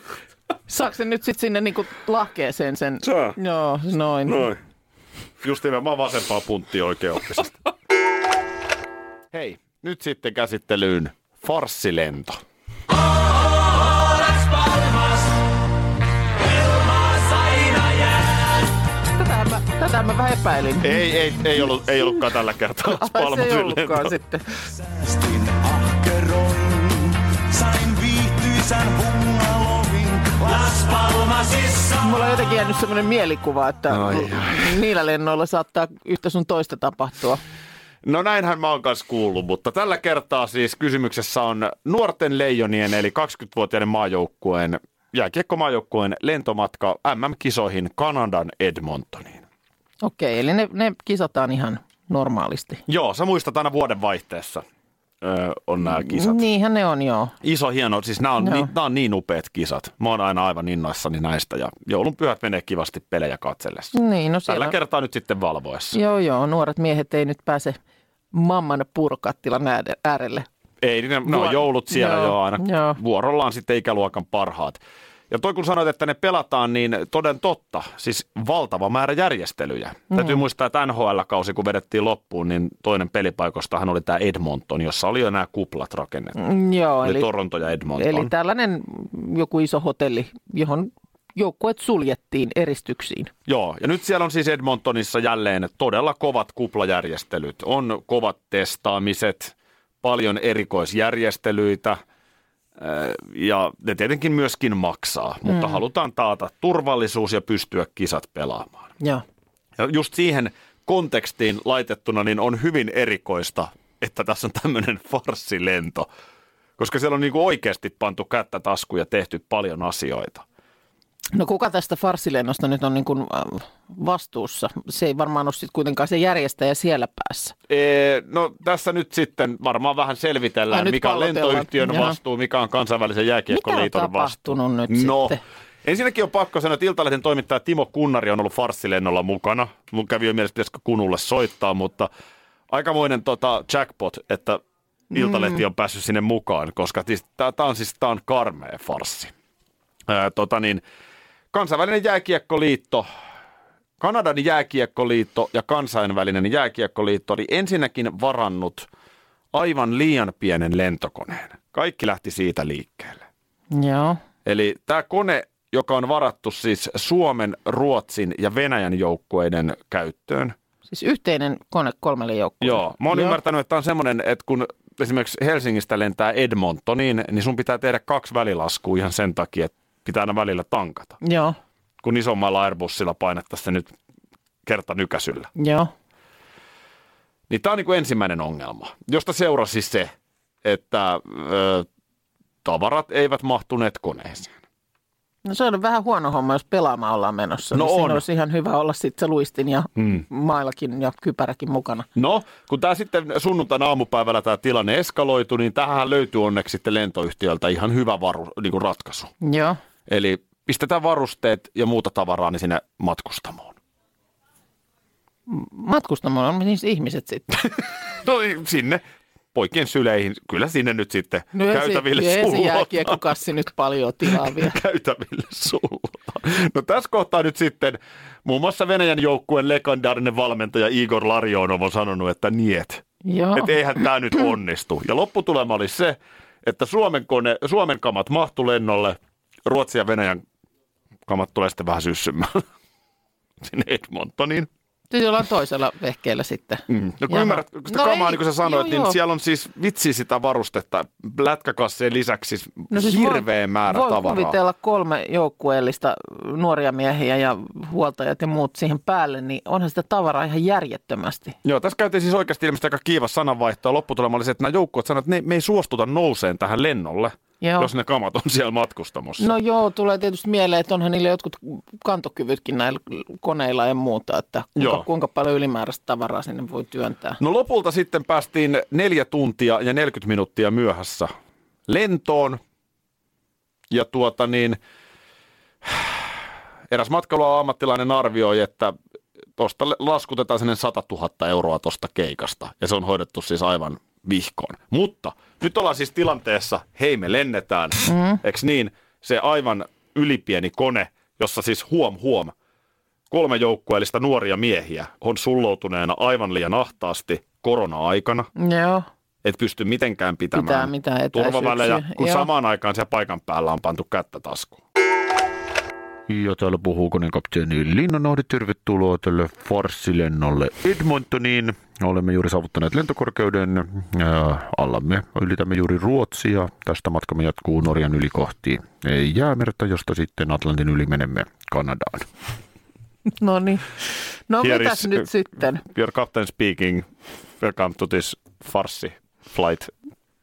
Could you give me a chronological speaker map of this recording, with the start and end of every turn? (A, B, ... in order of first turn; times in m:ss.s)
0:00.7-0:04.5 A
0:03.0-0:03.4 B
0:04.3-0:04.6 B
0:05.4-0:07.6 C
0:09.3-0:12.4 C
0:17.1-0:18.1 B
0:19.2-0:21.1 A
0:20.8-0:24.1 C
0:22.9-0:24.5 A
0:25.0-0:31.9 B
0:31.9-0:37.4 A
0:38.0-0:49.4 C
0:50.0-0:52.8 A
0:52.9-0:54.6 C
0:55.2-0:56.4 C
0:55.8-0:57.4 A
0:57.4-1:04.0 C
0:58.4-0:58.7 A
1:03.9-1:04.8 A
1:04.5-1:06.0 C
1:05.9-1:07.8 A
1:08.3-1:10.5 A
1:10.8-1:26.4 C
1:11.3-1:13.0 A
1:20.1-1:20.4 A
1:26.4-1:27.3 A
1:27.0-1:28.3 C
1:28.0-1:33.3 A
1:33.5-1:42.0 C
1:42.8-1:48.9 C
1:45.5-1:45.8 A
1:49.8-1:56.1 C
1:56.8-2:00.4 C
2:01.3-2:07.6 A
2:07.7-2:22.1 C
2:10.7-2:12.2 A
2:13.5-2:15.4 A
2:22.7-2:24.6 C
2:25.1-2:29.3 C
2:25.1-2:25.6 A
2:30.1-2:30.8 C
2:31.5-2:33.1 C
2:34.0-2:38.9 C
2:39.5-2:43.2 C
2:43.7-2:44.2 A
2:44.4-2:50.6 C
2:50.9-2:53.4 A
2:52.6-3:01.2 C
3:01.2-3:01.6 A
3:02.0-3:03.9 C
3:04.7-3:05.5 C
3:05.6-3:05.9 A
3:07.5-3:10.1 C
3:10.6-3:11.9 C
3:12.6-3:14.6 C
3:15.4-3:22.1 A
3:17.7-3:18.2 C
3:20.0-3:20.2 C
3:22.2-3:29.3 C
3:29.4-3:29.8 A
3:30.1-3:33.8 C
3:35.5-3:37.5 A
3:37.6-3:39.0 C
3:39.5-3:43.3 C
3:41.5-3:44.8 A
3:44.3-3:53.0 C
3:53.2-3:53.8 A
3:53.6-4:00.4 C
4:01.3-4:02.6 C
4:03.6-4:04.7 C
4:05.1-4:09.2 A
4:06.9-4:14.6 C
4:12.9-4:21.6 A
4:21.6-4:29.5 C
4:27.6-4:27.9 A
4:29.4-4:37.4 A
4:34.8-4:35.1 C
4:37.4-4:41.3 C
4:41.9-4:42.6 C
4:43.9-4:44.8 C
4:45.8-4:46.3 C
4:46.9-4:49.0 C
4:49.6-5:02.5 C
4:58.1-4:58.4 A
5:03.3-5:08.5 C
5:08.6-5:09.1 A
5:09.4-5:14.8 C
5:10.5-5:12.5 A
5:16.3-5:32.3 C
5:33.4-5:35.8 A
5:34.6-5:35.2 C
5:35.8-5:37.1 C
5:37.6-5:39.9 C